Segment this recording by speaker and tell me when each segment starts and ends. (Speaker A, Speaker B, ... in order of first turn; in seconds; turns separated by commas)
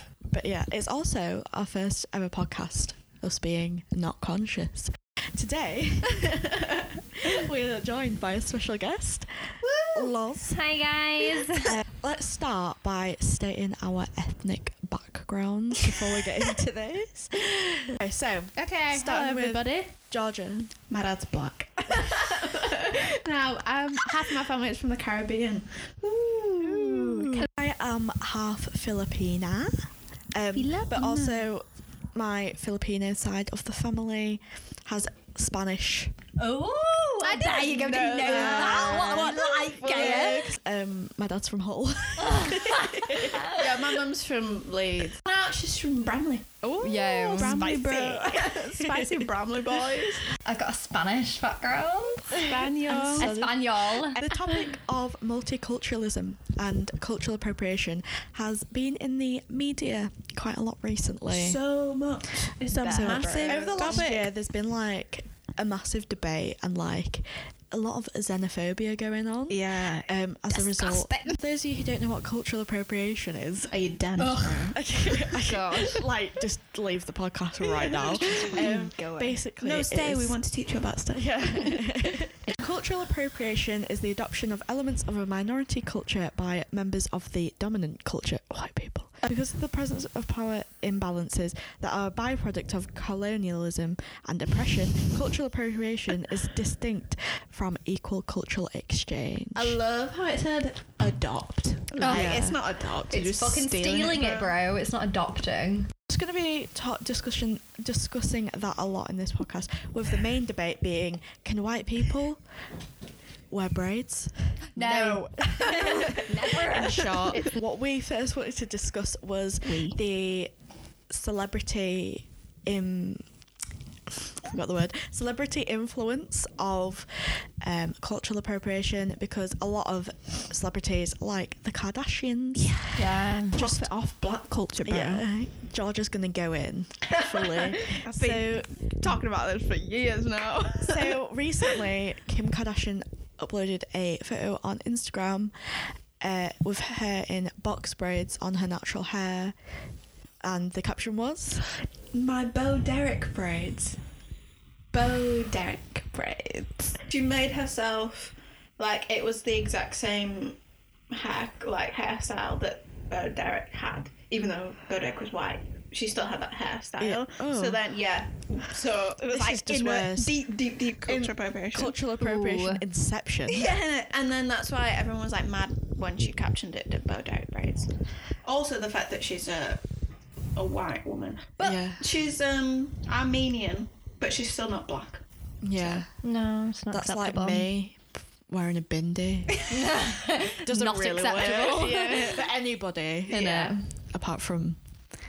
Speaker A: 0.2-10.6, Speaker B: 6.2-6.8, Speaker B: 9.6-10.1, Speaker C: 10.4-11.8, Speaker A: 11.6-20.7, Speaker B: 18.6-20.0, Speaker B: 20.9-27.5, Speaker A: 26.6-36.2, Speaker B: 30.5-31.5, Speaker C: 36.4-40.5, Speaker B: 37.2-40.6, Speaker A: 38.2-44.0, Speaker C: 42.2-43.6, Speaker B: 43.5-46.7, Speaker A: 46.6-49.9, Speaker C: 46.8-47.7, Speaker B: 47.3-50.3, Speaker C: 50.4-54.4, Speaker B: 52.4-53.3, Speaker A: 52.9-61.6, Speaker B: 61.3-64.3, Speaker C: 62.7-64.1, Speaker A: 62.9-73.8, Speaker B: 69.5-70.2, Speaker C: 70.5-71.3, Speaker B: 71.0-71.4, Speaker B: 73.7-74.8, Speaker C: 74.2-76.0, Speaker A: 74.7-80.4, Speaker B: 77.8-82.6, Speaker A: 81.2-99.8, Speaker B: 99.5-104.5, Speaker C: 102.0-102.5, Speaker A: 102.0-102.6, Speaker C: 103.1-105.9, Speaker A: 106.1-112.4, Speaker A: 113.5-120.5, Speaker C: 114.8-117.4, Speaker B: 115.6-116.2, Speaker B: 119.6-120.0, Speaker A: 121.1-123.2, Speaker A: 124.4-132.8, Speaker B: 132.6-135.3, Speaker C: 132.9-133.7, Speaker A: 133.5-133.9, Speaker A: 134.9-139.2, Speaker B: 137.4-141.2, Speaker A: 140.8-149.6, Speaker A: 150.4-151.7, Speaker B: 152.1-154.0, Speaker B: 154.9-160.6, Speaker B: 161.1-172.0, Speaker A: 167.0-167.8, Speaker A: 169.2-170.4, Speaker A: 171.1-173.7, Speaker C: 172.2-172.8, Speaker B: 173.5-179.9, Speaker B: 180.5-186.1, Speaker A: 181.6-182.0, Speaker A: 185.6-186.2, Speaker C: 186.2-187.7, Speaker A: 186.9-189.7, Speaker C: 189.7-192.4, Speaker A: 190.6-194.8, Speaker B: 191.4-192.3, Speaker C: 193.3-193.9